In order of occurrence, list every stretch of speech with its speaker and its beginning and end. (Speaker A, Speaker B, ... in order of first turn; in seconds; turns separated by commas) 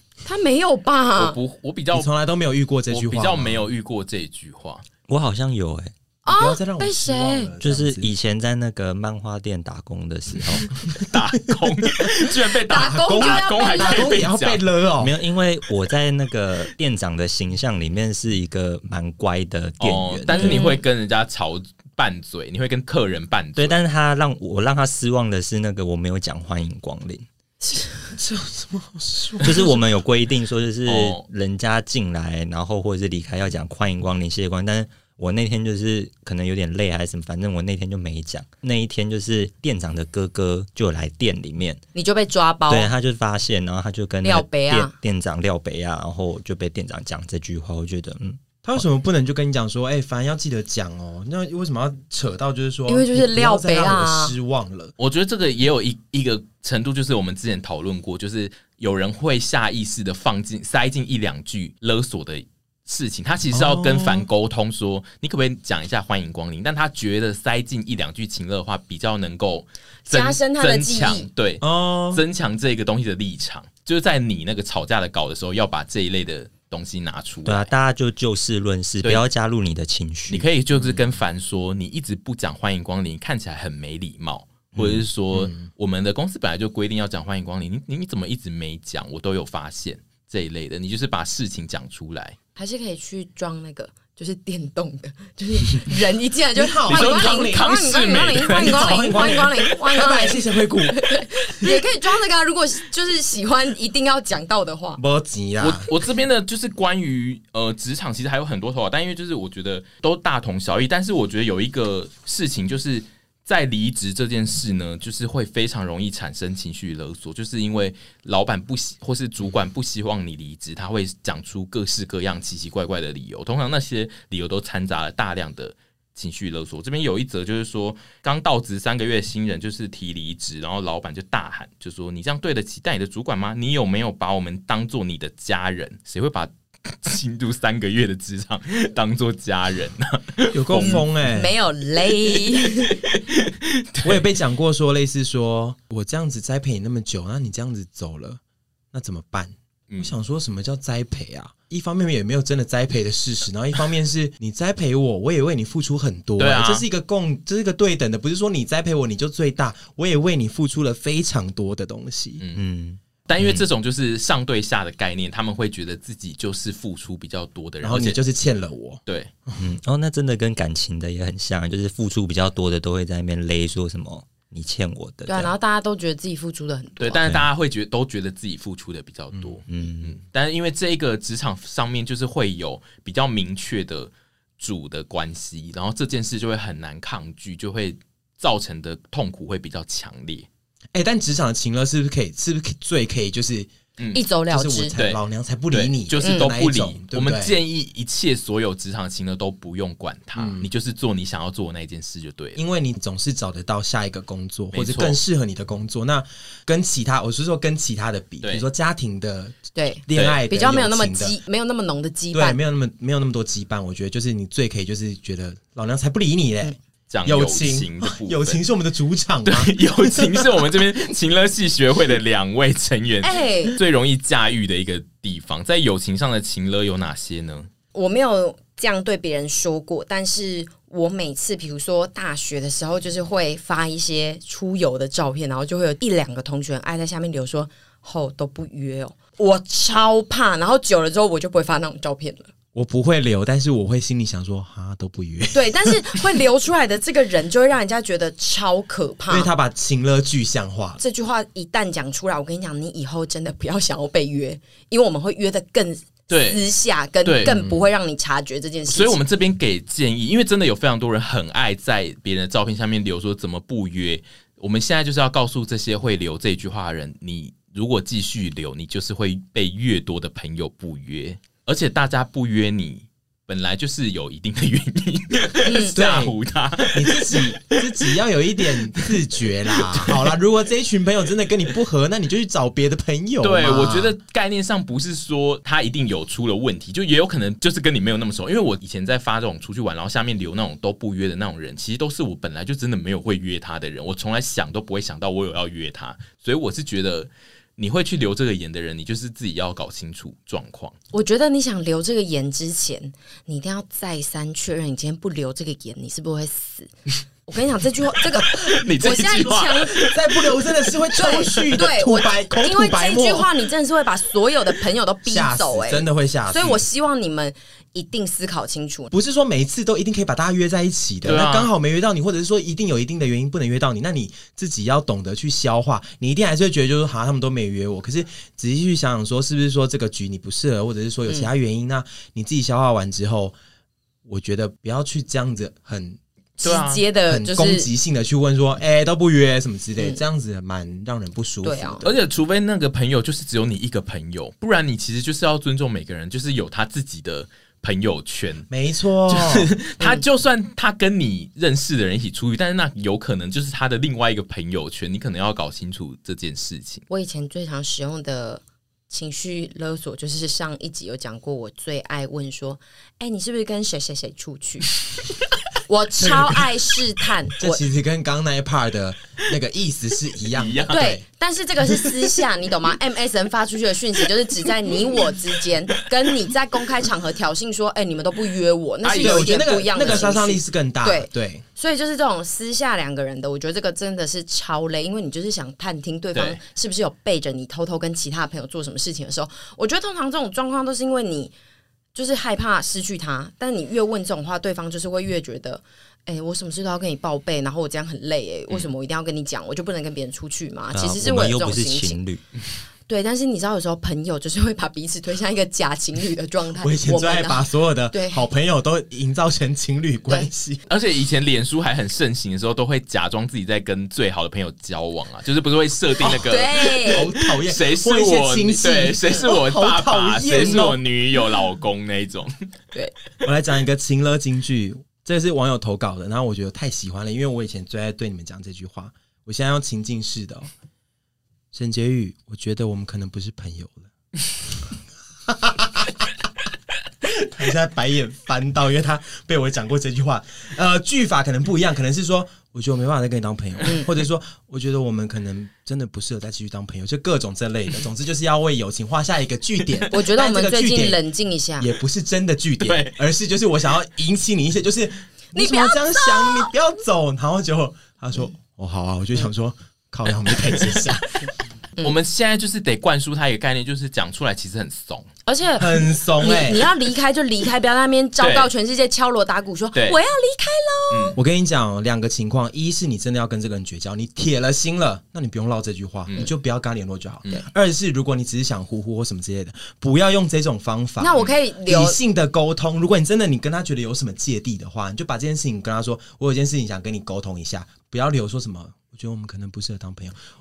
Speaker A: 0.2-1.4, Speaker B: 1.2-2.1, Speaker C: 1.9-3.6, Speaker B: 2.9-4.8, Speaker D: 5.1-5.9, Speaker A: 6.2-7.5, Speaker C: 6.3-8.1, Speaker D: 7.6-10.8, Speaker B: 10.9-14.6, Speaker A: 12.7-14.2, Speaker C: 12.8-15.1, Speaker D: 15.0-20.6, Speaker B: 19.8-23.8, Speaker A: 20.3-20.8, Speaker D: 23.6-27.3, Speaker A: 27.6-28.1, Speaker C: 28.1-29.8, Speaker D: 29.4-41.8, Speaker B: 30.9-31.3, Speaker A: 42.0-42.9, Speaker D: 42.7-48.8, Speaker A: 44.2-44.9, Speaker C: 48.6-54.9, Speaker A: 52.9-54.4, Speaker B: 55.0-77.7, Speaker C: 63.5-64.3, Speaker A: 70.1-71.3, Speaker C: 71.6-72.2, Speaker D: 77.5-80.5, Speaker B: 80.3-92.4, Speaker C: 85.3-85.7, Speaker A: 92.6-105.0, Speaker C: 96.5-101.0, Speaker B: 96.9-99.5, Speaker C: 105.0-105.9, Speaker B: 105.6-141.1, Speaker C: 140.5-141.5, Speaker A: 140.8-143.0, Speaker B: 142.7-144.2, Speaker C: 144.0-148.4, Speaker C: 148.9-162.4, Speaker B: 156.4-156.8, Speaker D: 162.5-163.5, Speaker B: 163.3-168.2, Speaker C: 167.8-169.6, Speaker D: 169.6-175.5, Speaker A: 175.3-177.2, Speaker B: 177.0-190.5, Speaker D: 177.2-177.5, Speaker D: 179.7-180.2, Speaker C: 190.9-193.7, Speaker A: 194.1-194.9, Speaker C: 194.5-197.6, Speaker B: 195.0-202.6, Speaker A: 196.2-196.5, Speaker C: 200.3-200.7, Speaker C: 202.6-211.4, Speaker B: 204.7-205.2, Speaker A: 209.8-212.6, Speaker B: 210.2-210.4, Speaker C: 212.3-220.5, Speaker B: 217.1-218.6, Speaker B: 219.5-227.7, Speaker A: 223.2-223.8, Speaker A: 227.9-242.5, Speaker C: 242.8-246.0, Speaker A: 245.5-249.5, Speaker C: 249.3-251.0, Speaker A: 251.0-259.2, Speaker B: 256.3-256.6, Speaker B: 257.2-257.6, Speaker B: 258.9-278.0, Speaker A: 275.6-276.0, Speaker C: 275.9-276.4, Speaker C: 276.9-284.1, Speaker B: 278.8-279.1, Speaker B: 279.8-280.3, Speaker B: 283.4-300.9, Speaker A: 301.1-306.9, Speaker A: 307.5-310.0, Speaker B: 308.4-310.6, Speaker C: 309.9-313.5, Speaker A: 311.1-319.1, Speaker C: 315.3-316.9, Speaker C: 319.1-333.6, Speaker B: 321.2-321.7, Speaker C: 334.3-336.2, Speaker B: 336.6-337.0, Speaker A: 336.6-337.9, Speaker C: 337.3-342.2, Speaker A: 341.6-342.1, Speaker B: 342.0-348.7, Speaker C: 348.7-349.7, Speaker B: 349.3-357.0, Speaker A: 357.1-364.9, Speaker A: 365.9-367.8, Speaker C: 367.6-371.2, Speaker B: 370.5-371.1, Speaker A: 370.9-391.5, Speaker B: 379.0-380.2, Speaker C: 379.2-381.6, Speaker B: 386.3-386.6, Speaker A: 392.1-402.2, Speaker D: 400.9-402.4, Speaker A: 403.1-408.4, Speaker C: 406.8-410.8, Speaker B: 410.9-422.5, Speaker A: 416.2-417.3, Speaker C: 417.1-421.0, Speaker C: 423.4-430.7, Speaker C: 431.7-434.1, Speaker C: 435.5-436.3, Speaker C: 437.2-451.2, Speaker A: 450.1-451.9, Speaker C: 451.8-461.5, Speaker B: 452.9-453.2, Speaker A: 455.5-456.7, Speaker B: 460.7-461.0, Speaker B: 462.0-465.3, Speaker A: 465.5-471.4, Speaker C: 465.8-466.9, Speaker B: 468.4-468.7, Speaker B: 471.1-471.4, Speaker C: 471.4-490.4, Speaker A: 481.2-482.2